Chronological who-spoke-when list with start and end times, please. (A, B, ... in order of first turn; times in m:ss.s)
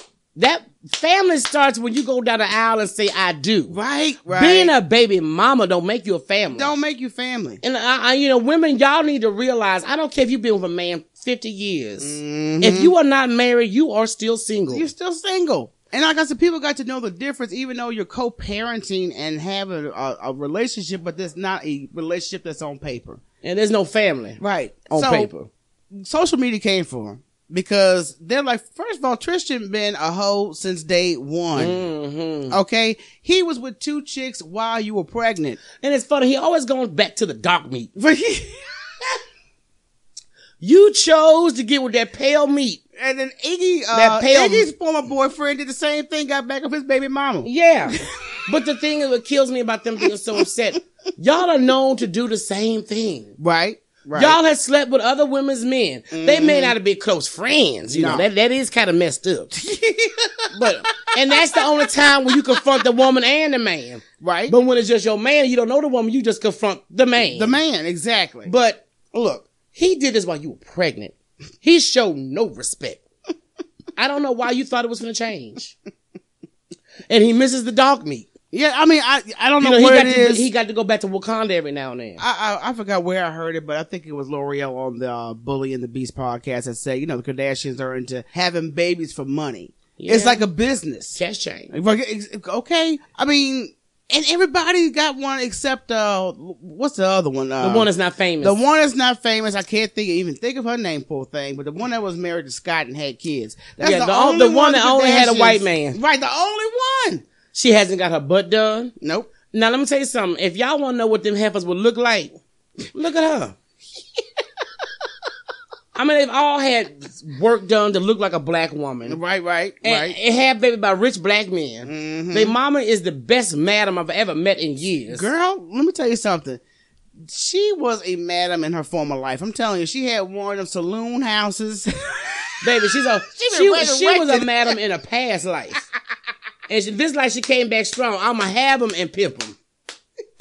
0:00.4-0:03.8 A
0:03.7-0:04.7 B
0:04.3-0:06.8 A
0:06.5-0:07.6 B
0:07.6-0:14.9 A
0:12.0-0:12.9 B
0:14.7-0:23.2 B
0:23.4-0:25.5 A
0:24.4-0:25.3 B
0:25.9-0:31.8 B
0:31.6-0:32.6 A
0:32.5-0:35.6 B
0:35.8-0:37.9 A
0:38.0-0:38.7 B
0:40.6-0:42.8 A
0:43.0-0:47.5 B
0:43.9-0:44.7 A
0:47.4-0:53.4 A
0:53.4-0:54.4 B
0:54.1-0:59.5 A
0:56.1-0:56.8 B
0:57.9-0:58.2 B
0:59.5-1:01.6 B
1:00.5-1:07.6 A
1:02.3-1:02.6 B
1:04.2-1:04.6 B
1:07.2-1:08.5 B
1:08.5-1:13.0 A
1:14.0-1:15.7 A
1:17.1-1:18.3 A
1:18.5-1:20.4 B
1:19.6-1:22.2 A
1:22.2-1:31.2 B
1:30.0-1:30.4 A
1:31.2-1:31.7 A
1:31.7-1:37.9 B
1:37.6-1:38.6 A
1:38.4-1:47.2 B
1:43.8-1:46.0 A
1:47.5-1:48.9 A
1:49.0-1:49.3 B
1:49.5-1:52.3 A
1:52.9-1:53.6 A
1:56.0-1:59.2 A
1:59.1-2:00.2 B
1:59.8-2:05.3 A
2:01.8-2:02.6 B
2:05.1-2:06.6 B
2:07.3-2:12.3 B
2:12.6-2:15.8 A
2:13.3-2:14.8 B
2:16.7-2:19.6 A